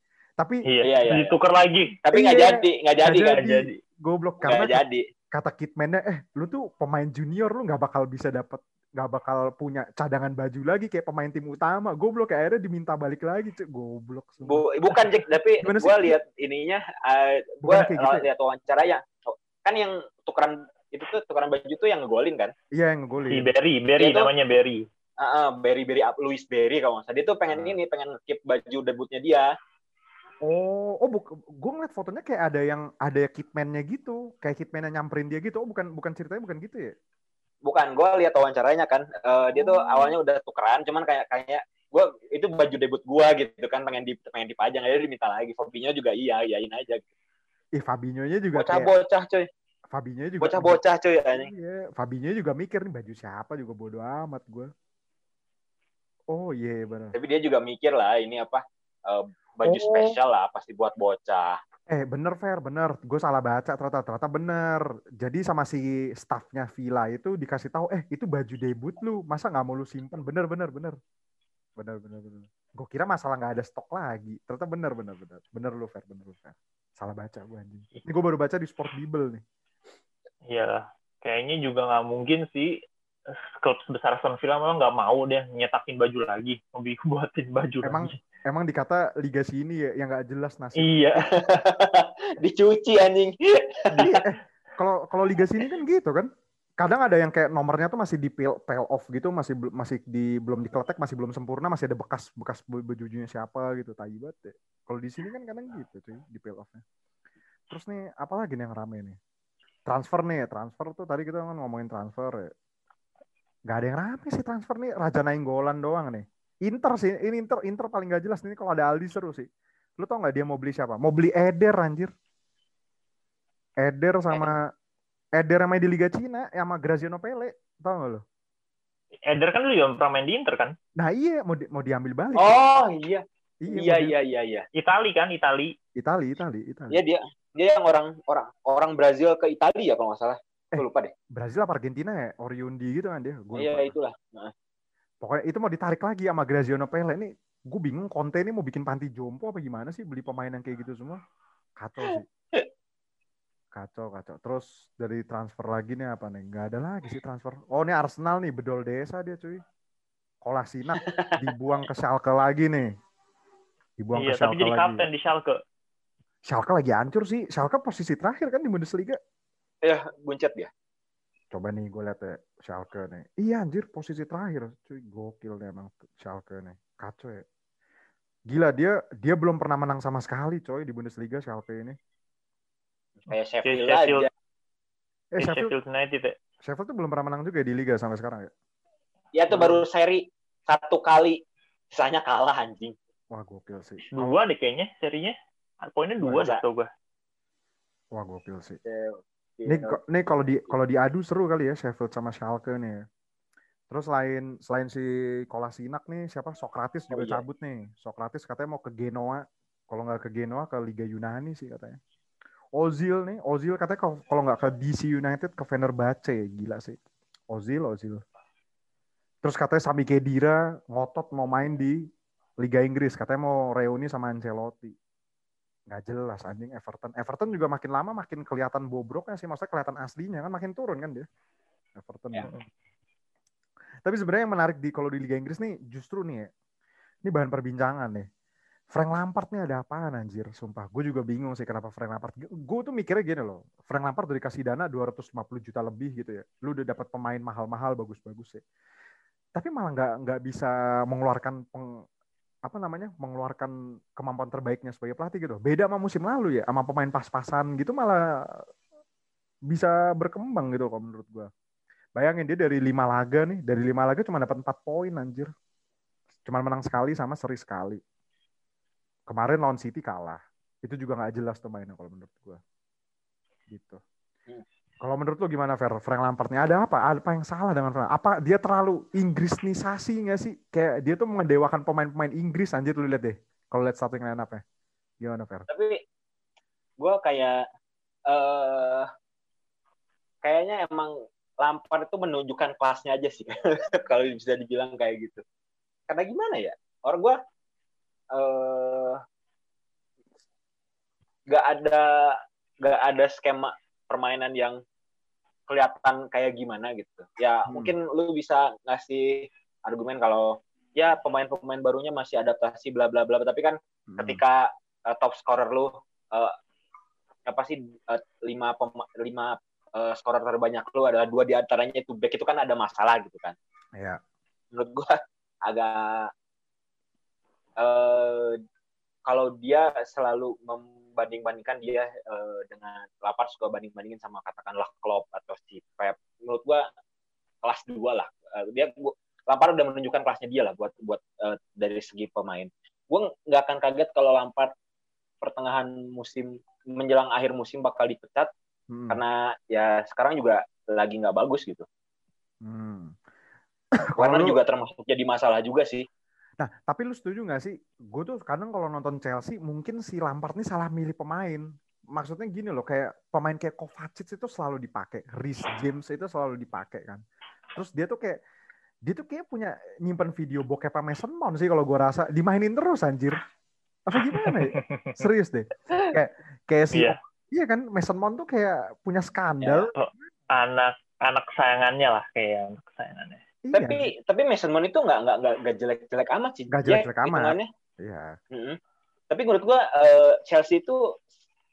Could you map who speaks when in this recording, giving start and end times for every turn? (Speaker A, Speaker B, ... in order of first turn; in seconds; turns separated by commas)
Speaker A: 0.4-0.6, Speaker B: 0.6-1.9, Speaker C: 0.8-1.4, Speaker C: 2.0-3.4, Speaker A: 2.1-4.8, Speaker B: 3.1-3.8, Speaker C: 4.4-5.0, Speaker A: 5.3-15.1, Speaker C: 14.4-22.5, Speaker A: 15.6-16.2, Speaker A: 17.6-18.2, Speaker A: 22.7-23.5, Speaker B: 23.3-24.8, Speaker C: 24.0-24.3, Speaker C: 25.2-29.5, Speaker A: 27.5-27.8, Speaker A: 30.4-36.9, Speaker C: 37.6-47.0, Speaker A: 39.5-40.1, Speaker A: 47.8-48.9, Speaker C: 48.5-49.5, Speaker A: 49.9-50.8, Speaker C: 50.4-51.5, Speaker A: 51.3-54.7, Speaker A: 56.3-57.1, Speaker C: 57.1-61.6, Speaker A: 59.6-60.1, Speaker A: 61.9-71.0, Speaker A: 71.8-79.4, Speaker B: 80.5-82.8, Speaker B: 83.3-88.1, Speaker A: 87.8-91.1, Speaker B: 90.8-91.3, Speaker C: 91.3-94.2, Speaker A: 93.9-96.3, Speaker A: 96.8-106.8, Speaker A: 107.7-109.2, Speaker A: 109.9-112.5, Speaker A: 113.7-119.5, Speaker A: 120.0-122.1, Speaker A: 123.8-124.7, Speaker A: 125.4-128.2, Speaker B: 129.3-130.7, Speaker A: 131.0-132.6, Speaker C: 132.4-134.7, Speaker A: 133.6-134.1, Speaker B: 134.8-135.7, Speaker A: 135.9-137.0, Speaker C: 136.9-141.1, Speaker A: 140.7-143.9, Speaker C: 143.5-144.5, Speaker A: 145.2-151.2, Speaker A: 151.8-152.2, Speaker C: 152.1-152.7, Speaker A: 153.7-159.6, Speaker A: 160.4-162.9, Speaker C: 160.9-161.4, Speaker A: 164.0-165.1, Speaker B: 164.1-165.6, Speaker A: 166.5-169.2, Speaker C: 169.8-170.7, Speaker A: 171.5-177.4, Speaker A: 178.5-182.0, Speaker C: 183.3-184.3, Speaker B: 183.6-184.3, Speaker A: 185.3-185.7, Speaker B: 185.4-186.3, Speaker A: 186.6-188.5, Speaker C: 189.3-191.4, Speaker A: 189.5-189.8, Speaker C: 191.9-192.9, Speaker A: 193.3-194.4, Speaker B: 194.2-196.9, Speaker C: 196.2-196.6, Speaker A: 198.1-198.8, Speaker C: 198.9-200.0, Speaker A: 199.7-203.0, Speaker A: 203.9-212.0, Speaker C: 207.1-207.4, Speaker A: 212.8-217.0, Speaker A: 217.5-218.2, Speaker A: 219.4-222.1, Speaker A: 222.6-224.9, Speaker A: 225.9-231.3, Speaker A: 232.0-232.5, Speaker A: 234.0-236.5, Speaker A: 237.2-238.3, Speaker A: 238.9-248.6, Speaker A: 249.6-252.0, Speaker A: 252.7-258.6, Speaker A: 259.7-261.5, Speaker A: 262.1-265.5, Speaker A: 266.4-268.0, Speaker A: 269.3-272.6, Speaker A: 273.7-274.0, Speaker A: 275.0-284.6, Speaker A: 285.2-285.6, Speaker C: 285.7-286.0, Speaker C: 287.0-287.6, Speaker C: 288.3-289.1, Speaker C: 290.4-295.4, Speaker C: 296.1-297.4, Speaker C: 298.3-299.2, Speaker C: 301.5-304.8, Speaker C: 305.7-316.5, Speaker A: 307.7-307.9, Speaker A: 314.1-314.4, Speaker C: 317.5-323.6, Speaker C: 324.7-326.3, Speaker C: 327.8-328.6, Speaker C: 329.2-336.9, Speaker C: 337.6-344.7, Speaker C: 345.4-348.5, Speaker A: 348.9-349.2, Speaker C: 349.1-351.8, Speaker A: 352.6-353.2, Speaker A: 353.9-354.6, Speaker C: 354.2-356.0, Speaker A: 356.6-367.2, Speaker A: 367.8-368.4, Speaker A: 369.0-373.5, Speaker A: 374.1-379.9, Speaker B: 374.1-375.2, Speaker B: 376.9-377.2, Speaker C: 379.6-379.9, Speaker B: 379.9-383.4, Speaker A: 383.6-384.1, Speaker C: 383.7-387.7, Speaker A: 386.7-388.3, Speaker C: 388.5-388.8, Speaker C: 389.3-391.1